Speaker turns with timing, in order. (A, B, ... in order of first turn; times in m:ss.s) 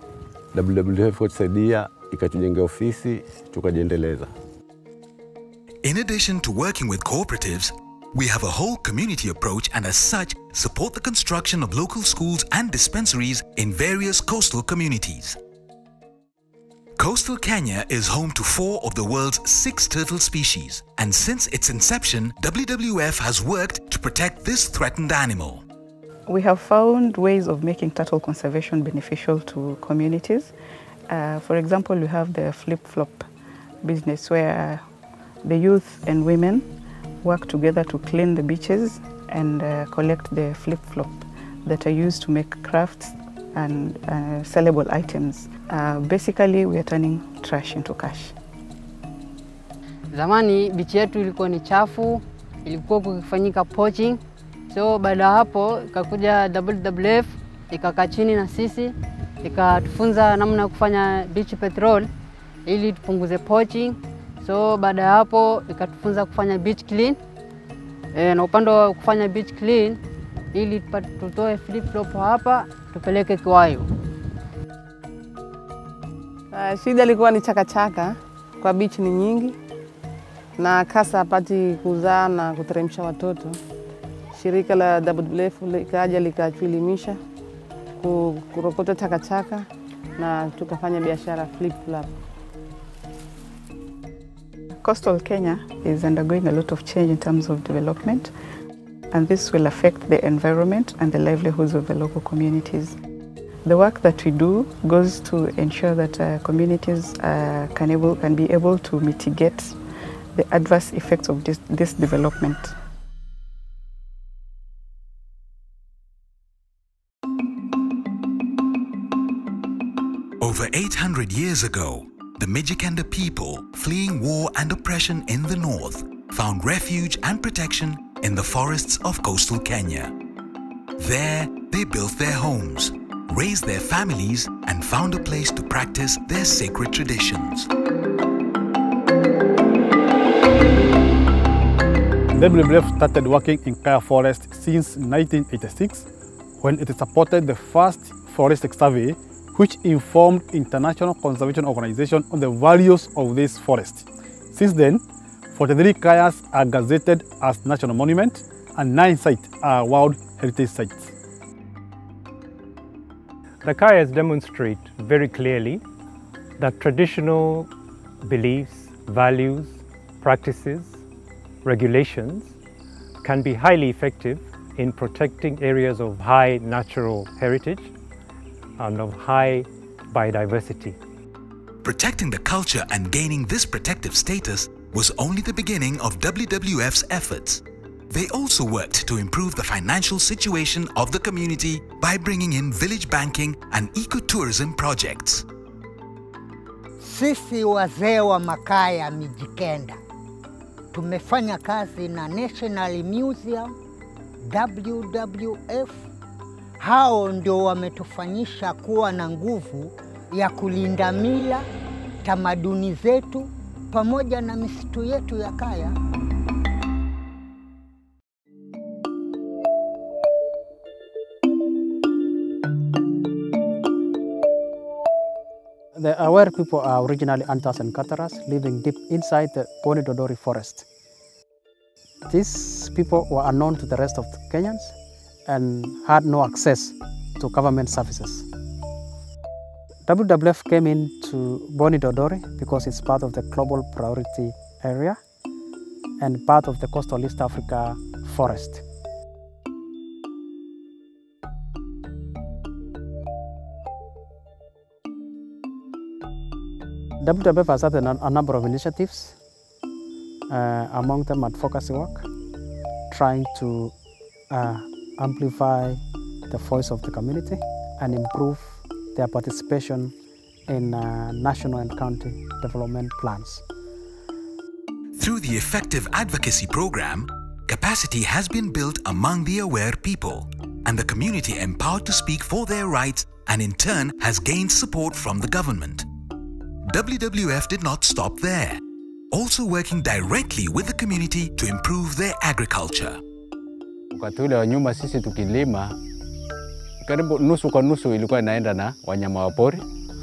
0:00.5-0:04.3 A
0:05.8-0:15.4 B
0:17.0-0:25.6 B
0:26.3-0:30.5 C
0:31.1-0:33.2 C
0:33.8-0:34.8 C
0:35.4-0:36.7 C
0:37.2-0:48.3 C
0:50.1-1:02.1 D
1:02.6-1:07.2 D
1:08.1-1:10.0 D
1:10.5-1:13.9 D
1:16.5-1:19.6 E
1:20.6-1:23.6 E
1:24.3-1:27.2 E
1:28.0-1:29.6 E
1:30.2-1:32.1 E
1:34.8-1:38.3 C
1:39.1-1:43.0 C
1:43.6-1:49.8 C
1:50.3-1:52.7 C
2:00.4-2:10.1 B
2:11.0-2:17.7 B
2:22.3-2:26.1 F
2:26.6-2:41.1 F
2:43.6-2:45.8 G
2:46.6-2:47.7 G
2:48.2-2:51.0 G
2:51.6-2:52.6 G
2:53.2-2:57.9 G
2:58.8-3:01.0 G
3:01.8-3:15.4 B
3:17.0-3:20.0 H
3:20.9-3:23.7 H
3:24.5-3:26.1 H
3:26.8-3:31.7 H
3:32.2-3:35.9 H
3:45.9-3:50.8 I
3:52.2-3:58.5 I
4:00.0-4:05.2 I
4:06.2-4:08.8 I
4:17.2-4:19.4 I
4:20.5-4:22.3 I
4:23.1-4:23.9 I
4:24.5-4:30.1 I
4:30.7-4:33.6 I
4:35.2-4:46.1 B
4:46.8-4:48.8 B
4:49.3-4:53.2 B
4:54.1-4:56.0 J
4:57.0-4:59.8 J